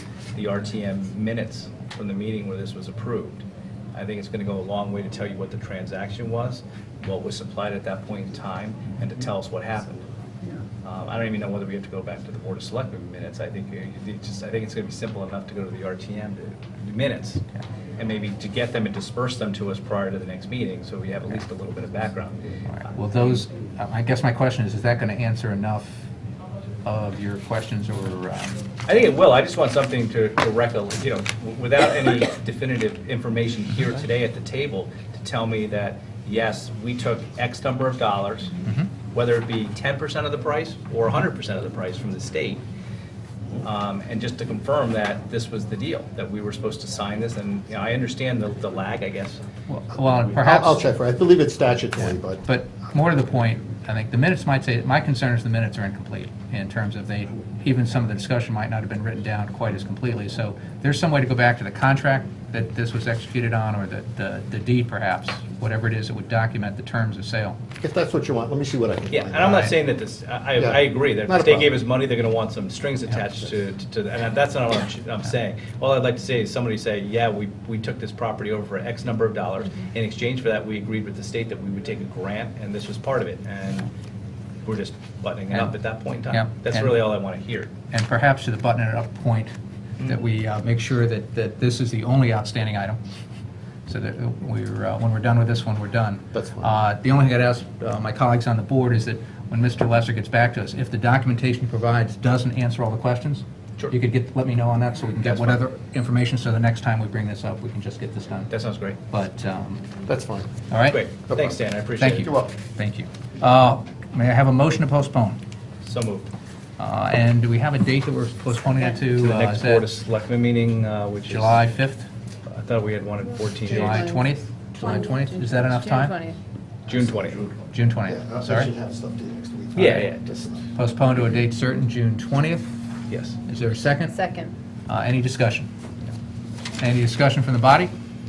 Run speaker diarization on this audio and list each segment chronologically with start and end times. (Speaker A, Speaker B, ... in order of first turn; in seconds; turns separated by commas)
Speaker A: 0.3-10.0, Speaker A: 10.8-17.4, Speaker A: 18.0-22.7, Speaker B: 22.7-26.1, Speaker B: 26.8-28.6, Speaker A: 28.9-38.6, Speaker A: 39.1-42.6, Speaker A: 43.6-49.4, Speaker B: 49.7-50.8, Speaker C: 50.3-52.4, Speaker B: 52.4-67.6, Speaker C: 67.8-69.8, Speaker A: 69.1-83.9, Speaker C: 70.6-71.7, Speaker A: 84.6-87.7, Speaker B: 86.3-87.1, Speaker B: 87.9-93.0, Speaker B: 93.9-108.5, Speaker C: 96.3-96.7, Speaker A: 105.2-105.6, Speaker A: 108.5-109.0, Speaker B: 109.1-109.8, Speaker C: 110.0-110.5, Speaker B: 110.7-111.0, Speaker A: 110.9-112.3, Speaker C: 111.3-112.5, Speaker B: 112.7-115.4, Speaker A: 115.8-116.3, Speaker B: 116.8-119.9, Speaker A: 119.2-121.7, Speaker B: 121.3-122.1, Speaker A: 122.5-124.1, Speaker B: 123.7-126.2, Speaker D: 123.7-126.4, Speaker A: 126.9-127.5, Speaker C: 126.9-130.7, Speaker B: 127.7-128.7, Speaker A: 129.7-130.3, Speaker B: 130.7-132.7, Speaker A: 133.1-133.4, Speaker B: 133.5-134.2, Speaker D: 134.1-134.5, Speaker B: 134.9-135.7, Speaker B: 136.8-137.9